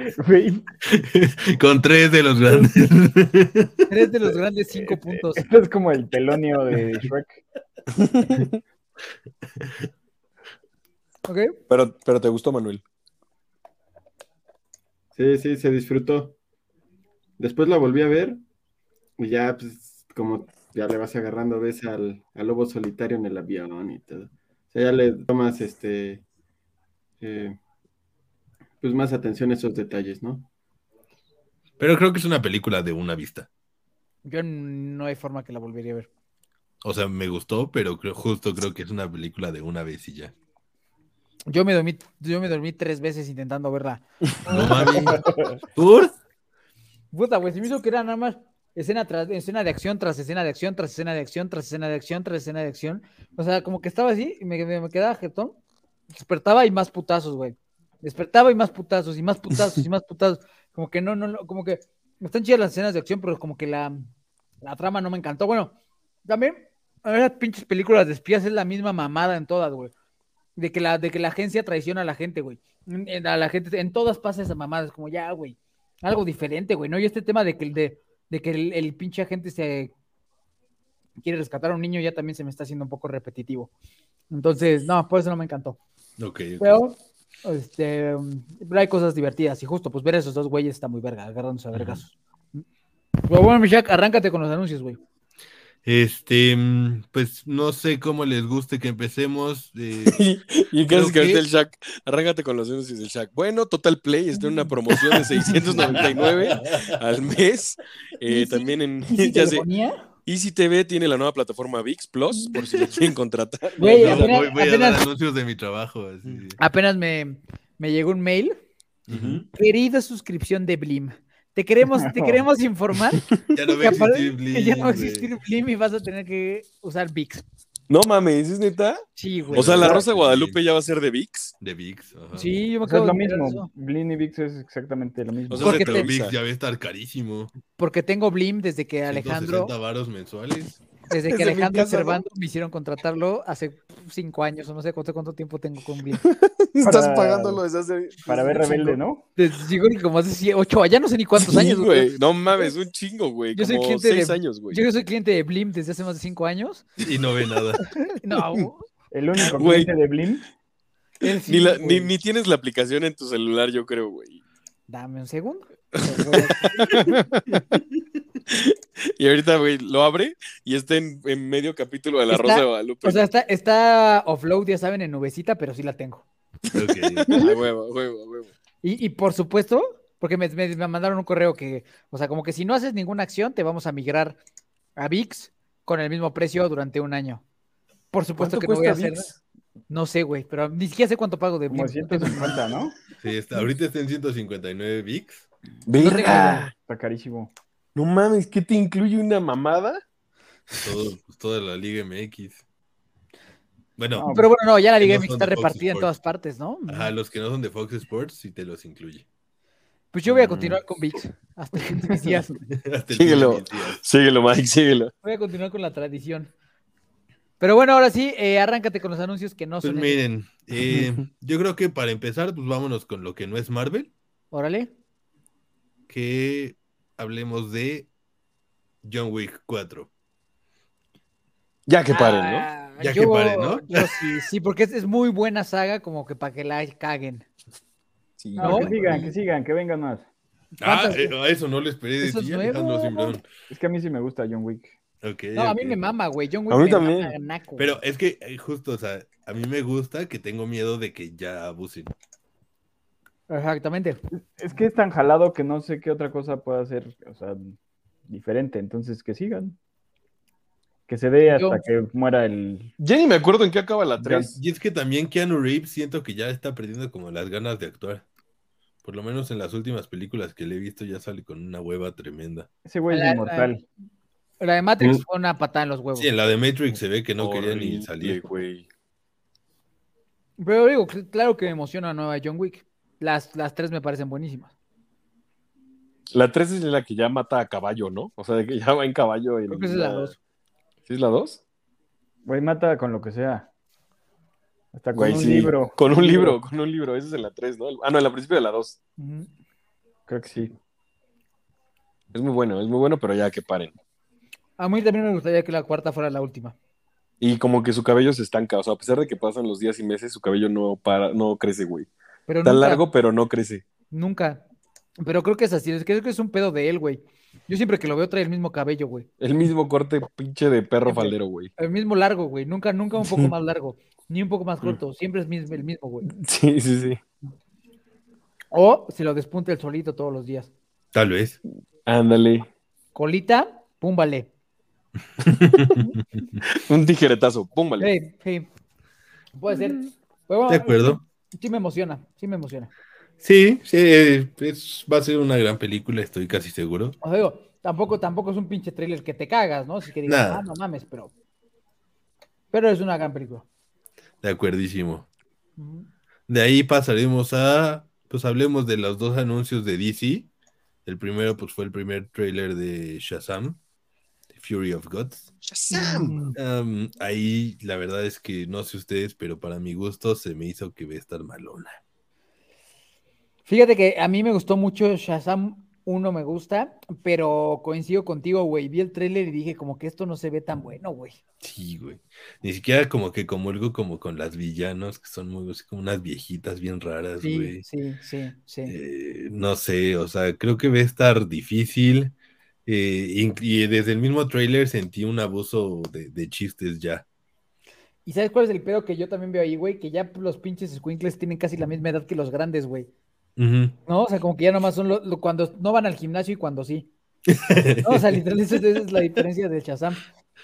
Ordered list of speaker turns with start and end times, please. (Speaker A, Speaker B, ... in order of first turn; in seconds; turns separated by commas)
Speaker A: 0.2-0.7, Speaker B: 0.9-3.7, Speaker C: 3.9-5.5, Speaker A: 4.7-7.4, Speaker D: 7.9-8.6, Speaker C: 11.3-11.6, Speaker D: 11.7-12.8, Speaker E: 15.2-16.4, Speaker E: 17.4-18.4, Speaker E: 19.2-26.2, Speaker E: 27.2-27.6, Speaker E: 28.8-30.5, Speaker B: 31.8-33.5, Speaker C: 34.2-36.1, Speaker B: 36.8-40.3, Speaker C: 41.5-45.2, Speaker B: 44.5-46.1, Speaker C: 47.1-55.6, Speaker C: 56.1-64.1, Speaker C: 64.6-65.7, Speaker C: 66.3-69.9, Speaker C: 70.6-79.9, Speaker C: 81.2-83.7, Speaker C: 84.3-85.8, Speaker B: 86.2-86.8, Speaker C: 86.6-92.6, Speaker B: 91.7-92.0, Speaker C: 93.3-95.0, Speaker B: 95.8-100.2, Speaker D: 100.1-109.7, Speaker B: 100.9-101.4, Speaker C: 105.8-106.0, Speaker B: 105.8-107.0, Speaker C: 108.3-110.0, Speaker D: 110.3-114.4, Speaker B: 112.7-113.0, Speaker C: 113.8-115.0, Speaker B: 113.8-116.6, Speaker C: 116.6-118.5, Speaker B: 119.1-119.5, Speaker D: 119.1-119.4, Speaker C: 119.5-123.2, Speaker A: 122.0-122.5, Speaker B: 123.5-125.3, Speaker C: 123.8-127.4, Speaker D: 127.9-131.5, Speaker C: 129.2-130.0, Speaker B: 129.5-130.6, Speaker B: 131.6-132.5, Speaker C: 132.3-133.7, Speaker A: 132.8-135.8, Speaker D: 135.5-136.4, Speaker B: 135.6-137.5, Speaker C: 135.6-136.1, Speaker C: 137.8-139.7, Speaker B: 139.1-140.8, Speaker C: 141.1-146.2, Speaker D: 141.3-142.2, Speaker D: 146.2-149.0, Speaker A: 146.8-147.6, Speaker A: 148.3-149.2, Speaker C: 149.4-152.7, Speaker D: 151.4-154.8, Speaker C: 153.6-156.9, Speaker B: 157.0-157.8, Speaker C: 158.2-158.9, Speaker A: 159.1-160.4, Speaker D: 159.6-159.9, Speaker C: 161.2-162.1, Speaker D: 161.5-164.4, Speaker C: 164.9-167.1, Speaker D: 165.9-167.8, Speaker D: 168.5-173.2, Speaker C: 172.3-176.3, Speaker B: 176.7-177.4, Speaker D: 177.3-178.5, Speaker C: 177.3-177.5, Speaker C: 178.8-184.4, Speaker C: 185.0-187.4, Speaker C: 188.1-189.3, Speaker D: 188.4-189.3, Speaker C: 189.9-192.6, Speaker A: 191.7-193.0, Speaker B: 193.2-195.5, Speaker D: 195.9-196.7, Speaker C: 196.0-196.7, Speaker A: 196.7-197.5, Speaker D: 197.9-200.0, Speaker B: 200.8-202.6, Speaker B: 204.0-204.3, Speaker A: 204.2-204.5, Speaker C: 204.3-207.1, Speaker B: 205.0-206.1, Speaker B: 206.9-209.2, Speaker C: 210.1-212.6, Speaker B: 210.3-210.8, Speaker B: 212.7-214.0, Speaker D: 213.1-215.1, Speaker C: 215.2-216.5, Speaker C: 217.6-220.2, Speaker B: 219.8-224.1, Speaker C: 224.5-224.9, Speaker B: 226.1-228.1, Speaker B: 229.0-230.1, Speaker D: 231.9-232.7, Speaker C: 232.1-237.5, Speaker B: 233.0-234.1, Speaker D: 238.4-239.0, Speaker A: 238.6-240.3, Speaker C: 238.6-239.3, Speaker C: 240.8-241.4, Speaker B: 240.8-243.5, Speaker C: 242.2-243.4, Speaker A: 243.7-245.0, Speaker B: 245.2-246.0, Speaker C: 245.6-248.0, Speaker D: 246.7-247.3, Speaker B: 247.8-252.1, Speaker C: 253.5-254.2, Speaker A: 254.3-257.8, Speaker A: 258.3-259.8, Speaker A: 261.1-262.9, Speaker C: 261.5-261.8, Speaker D: 263.0-264.5, Speaker A: 264.2-264.5, Speaker B: 264.4-268.2, Speaker B: 269.0-272.7, Speaker A: 272.9-273.9, Speaker C: 273.1-273.7, Speaker C: 274.6-276.3, Speaker B: 276.2-278.4, Speaker D: 277.4-278.9, Speaker C: 280.6-284.7, Speaker D: 286.3-290.3, Speaker C: 289.7-290.4, Speaker D: 291.1-291.6, Speaker A: 292.4-293.7, Speaker A: 294.9-296.6, Speaker D: 295.1-299.0, Speaker C: 299.2-299.5, Speaker A: 300.3-300.7, Speaker D: 302.3-303.9, Speaker C: 304.8-306.8, Speaker D: 307.4-312.1, Speaker C: 312.5-313.0, Speaker D: 312.6-313.9, Speaker C: 314.1-314.6, Speaker C: 315.2-319.3, Speaker D: 319.4-321.7, Speaker C: 321.1-326.3, Speaker D: 323.2-323.5, Speaker D: 326.3-327.2, Speaker C: 328.7-330.7, Speaker B: 331.1-331.6, Speaker D: 332.1-332.7, Speaker C: 333.1-334.5, Speaker B: 335.4-336.0, Speaker D: 336.6-338.1, Speaker C: 338.0-338.7, Speaker C: 339.6-342.9, Speaker B: 340.7-341.2, Speaker B: 343.4-347.2, Speaker C: 347.2-351.3, Speaker B: 350.3-350.6, Speaker C: 352.7-353.7, Speaker B: 354.4-355.3, Speaker C: 355.8-356.1, Speaker B: 356.5-360.5, Speaker B: 361.1-363.8, Speaker B: 364.5-365.5, Speaker D: 365.6-366.4, Speaker C: 365.9-366.6, Speaker B: 366.6-372.0, Speaker C: 373.7-381.4, Speaker B: 381.6-387.8, Speaker C: 387.4-389.0, Speaker B: 388.9-392.3, Speaker B: 392.9-397.2, Speaker C: 398.3-403.1, Speaker B: 403.6-404.0, Speaker C: 404.1-407.1, Speaker B: 407.5-408.4, Speaker C: 408.0-410.2